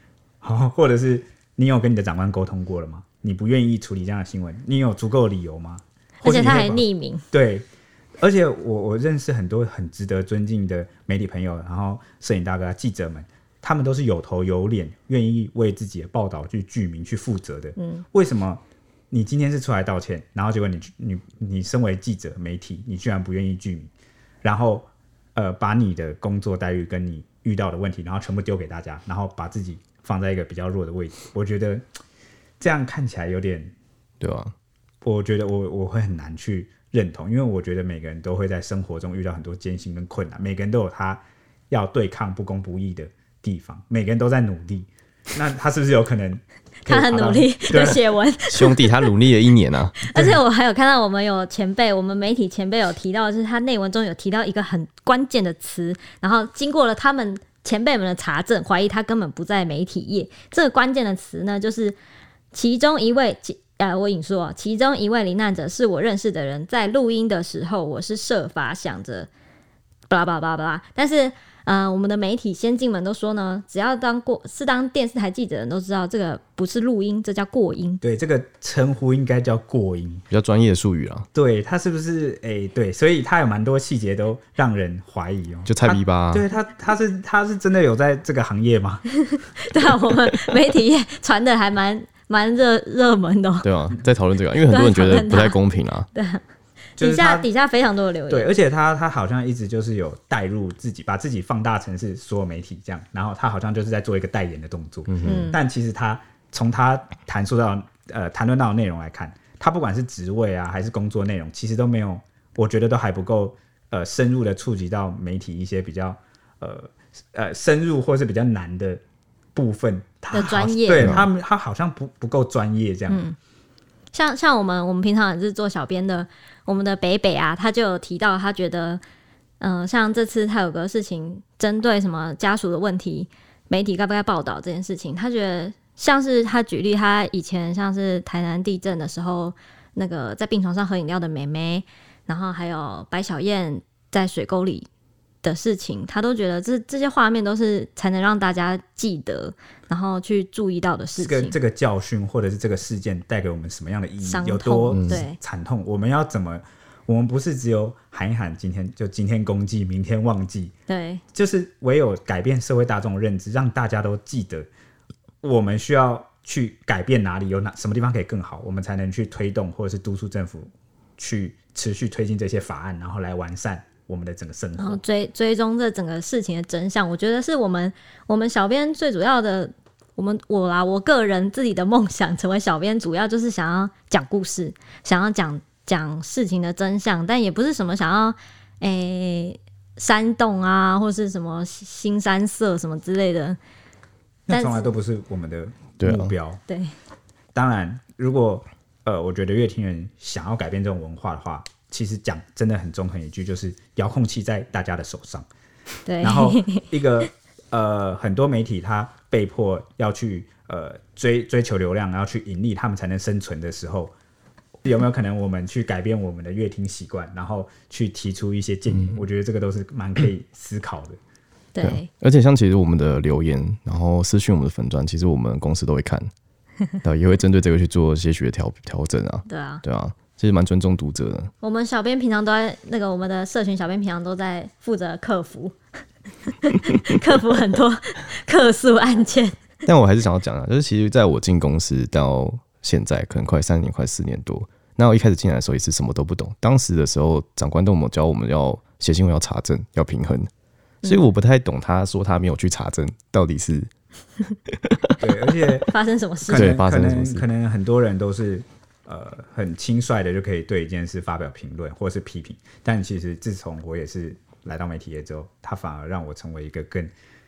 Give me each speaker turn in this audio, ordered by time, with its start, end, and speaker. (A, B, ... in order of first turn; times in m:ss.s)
0:00.4-0:07.7 A
0:06.2-0:07.2 B
0:08.2-0:23.9 A
0:17.8-0:18.0 B
0:24.4-0:31.8 A
0:32.6-0:33.7 A
0:34.2-0:34.5 C
0:35.0-0:48.0 A
0:46.9-0:49.1 B
0:48.5-0:50.0 C
0:50.0-1:02.0 B
0:50.1-0:50.4 A
1:02.5-1:09.3 B
1:10.1-1:18.0 B
1:18.0-1:20.2 A
1:20.3-1:21.3 C
1:21.3-1:29.1 A
1:25.7-1:26.4 C
1:29.3-1:33.7 B
1:33.6-1:36.1 C
1:34.7-1:35.6 B
1:36.1-1:36.4 B
1:37.0-1:37.5 A
1:37.0-1:38.5 B
1:38.3-1:59.0 A
1:45.1-1:45.5 C
1:45.2-1:45.6 B
1:59.6-2:03.3 A
2:00.3-2:01.2 B
2:01.0-2:01.2 C
2:03.1-2:03.4 B
2:04.1-2:09.0 B
2:09.6-2:24.9 B
2:25.4-2:31.6 B
2:31.2-2:40.7 A
2:34.2-2:35.4 B
2:34.9-2:35.2 C
2:40.9-2:41.2 B
2:41.3-2:44.7 A
2:45.4-2:55.0 A
2:54.8-3:13.6 B
3:14.5-3:16.6 A
3:14.5-3:14.8 B
3:16.0-3:16.3 C
3:17.6-3:25.5 A
3:26.0-3:26.8 B
3:26.2-3:34.1 A
3:34.8-3:41.2 A
3:41.8-3:42.1 B
3:41.8-3:46.3 C
3:47.0-3:51.5 C
3:49.5-3:49.8 B
3:51.6-3:55.8 B
3:56.6-3:59.6 B
3:59.9-4:10.5 C
4:11.0-4:13.9 C
4:14.7-4:15.1 C
4:15.2-4:15.9 A
4:15.9-4:16.8 B
4:16.5-4:27.1 A
4:16.5-4:17.4 C